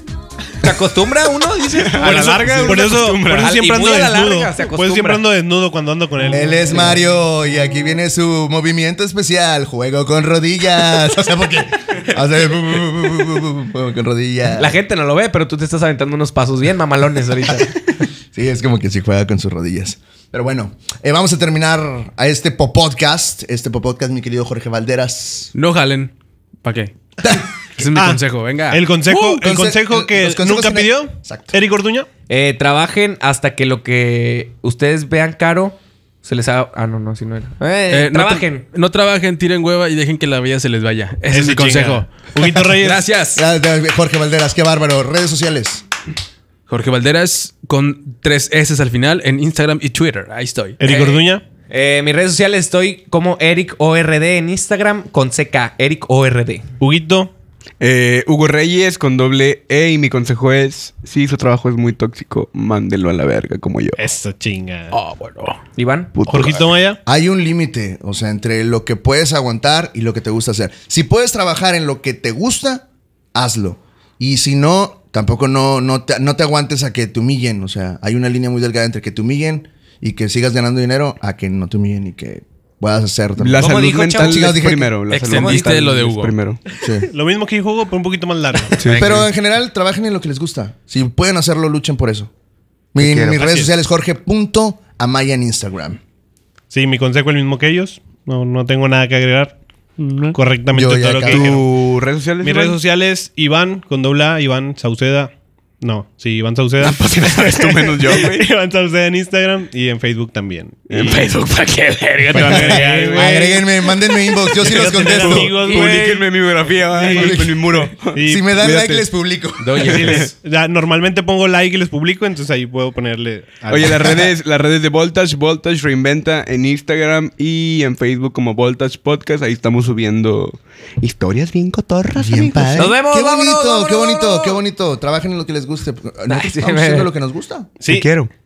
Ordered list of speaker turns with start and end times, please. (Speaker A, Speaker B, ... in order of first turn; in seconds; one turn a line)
Speaker A: 0.6-5.2
Speaker B: 1.8-3.7
Speaker C: 2.0-6.8
Speaker D: 6.3-14.8
Speaker A: 14.6-18.0
Speaker D: 18.3-25.5
Speaker E: 25.6-29.3
Speaker C: 27.9-32.1
Speaker D: 29.1-31.5
Speaker A: 32.3-38.7
Speaker E: 37.9-43.4
Speaker C: 41.3-43.1
Speaker D: 43.3-45.8
Speaker E: 46.7-50.8
Speaker C: 50.8-51.4
Speaker A: 50.8-56.7
Speaker C: 56.8-57.3
Speaker B: 57.8-64.0
Speaker C: 64.0-65.0
Speaker E: 64.9-65.6
Speaker A: 65.8-66.1
Speaker B: 66.2-66.7
Speaker C: 66.3-67.0
Speaker D: 67.1-84.9
Speaker B: 83.4-86.6
Speaker A: 83.6-85.8
Speaker E: 85.2-86.4
Speaker D: 86.8-87.1
Speaker C: 87.1-88.8
Speaker B: 88.8-89.1
Speaker A: 88.8-89.3
Speaker D: 88.9-92.3
Speaker D: 92.9-96.0
Speaker B: 93.0-93.5
Speaker C: 93.3-93.7
Speaker C: 96.7-99.5
Speaker E: 100.0-100.4
Speaker C: 100.3-101.6
Speaker D: 100.7-101.5
Speaker B: 101.3-102.8
Speaker C: 102.4-111.3
Speaker B: 106.8-108.5
Speaker B: 110.9-113.6
Speaker C: 112.3-113.7
Speaker D: 112.3-115.6
Speaker C: 114.5-116.3
Speaker B: 114.6-119.1
Speaker C: 117.0-117.4
Speaker D: 117.0-120.0
Speaker C: 118.1-118.6
Speaker E: 119.6-120.3
Speaker C: 119.8-124.3
Speaker B: 119.8-120.3
Speaker B: 123.7-132.9
Speaker D: 132.2-137.7
Speaker A: 132.8-134.6
Speaker A: 136.3-137.1
Speaker C: 137.8-138.1
Speaker B: 137.9-138.3